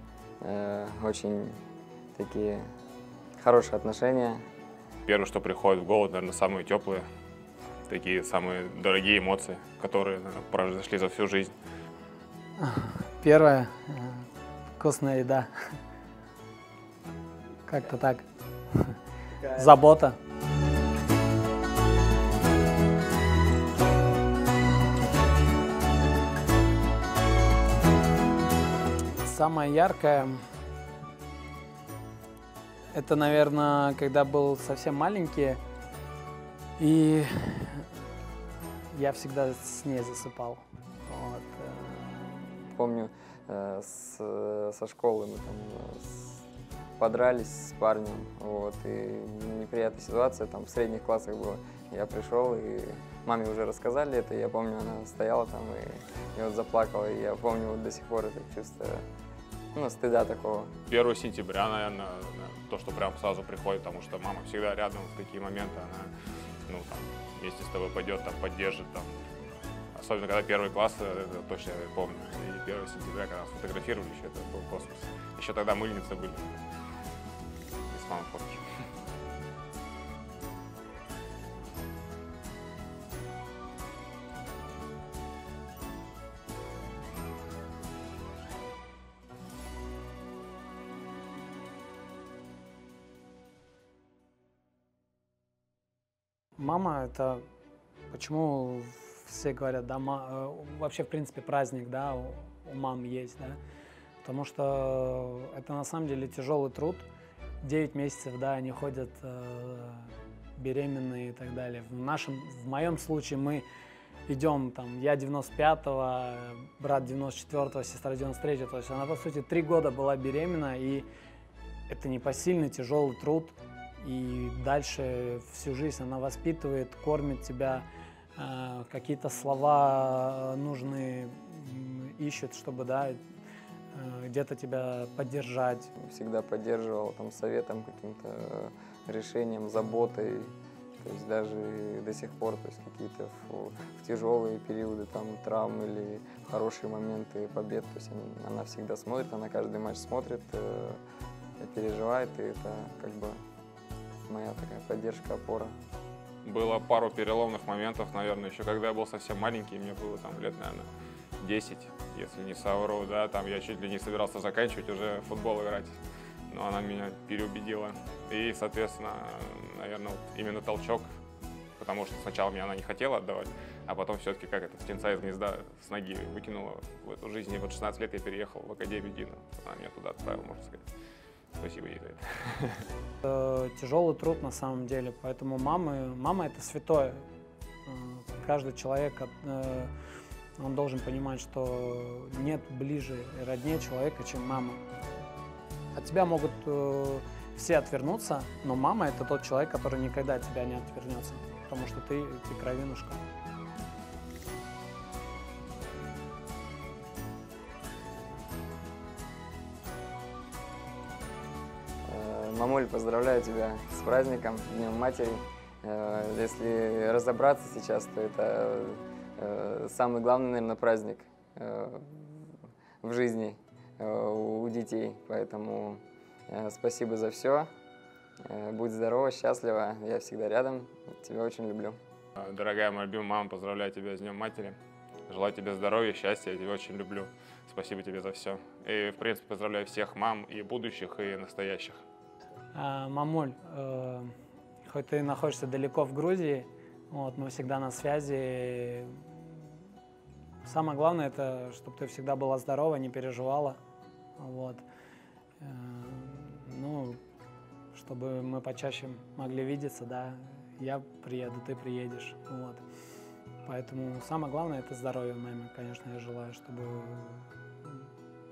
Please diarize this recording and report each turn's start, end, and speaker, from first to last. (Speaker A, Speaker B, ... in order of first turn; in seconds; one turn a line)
Speaker A: 0.4-1.6
Speaker A: 2.1-2.7
Speaker A: 3.4-4.4
Speaker B: 5.0-7.1
Speaker B: 7.9-11.5
Speaker C: 12.6-14.3
Speaker C: 14.8-15.8
Speaker C: 17.6-20.2
Speaker C: 29.2-30.4
Speaker C: 32.9-35.6
Speaker C: 36.8-37.9
Speaker C: 38.9-42.6
Speaker A: 42.7-46.4
Speaker A: 47.0-59.0
Speaker A: 59.7-60.7
Speaker B: 60.9-66.1
Speaker B: 66.7-69.1
Speaker B: 69.9-76.6
Speaker B: 77.9-78.6
Speaker C: 96.6-97.4
Speaker C: 98.1-103.6
Speaker C: 104.2-107.1
Speaker C: 107.6-113.6
Speaker C: 114.3-121.0
Speaker C: 121.9-127.8
Speaker C: 128.3-133.2
Speaker C: 133.9-135.9
Speaker A: 136.0-151.0
Speaker A: 151.6-153.4
Speaker A: 154.2-155.7
Speaker B: 156.4-171.1
Speaker B: 171.8-180.8
Speaker B: 181.6-182.8
Speaker C: 183.2-187.2
Speaker C: 187.8-189.9
Speaker C: 190.6-194.8
Speaker C: 195.9-203.2
Speaker A: 212.1-227.7
Speaker A: 228.4-232.0
Speaker B: 232.4-234.8
Speaker B: 235.3-242.0
Speaker C: 242.7-244.3
Speaker C: 244.8-249.4
Speaker C: 250.6-253.8
Speaker C: 254.4-254.8
Speaker C: 255.6-257.2
Speaker C: 257.9-262.8
Speaker C: 263.6-268.0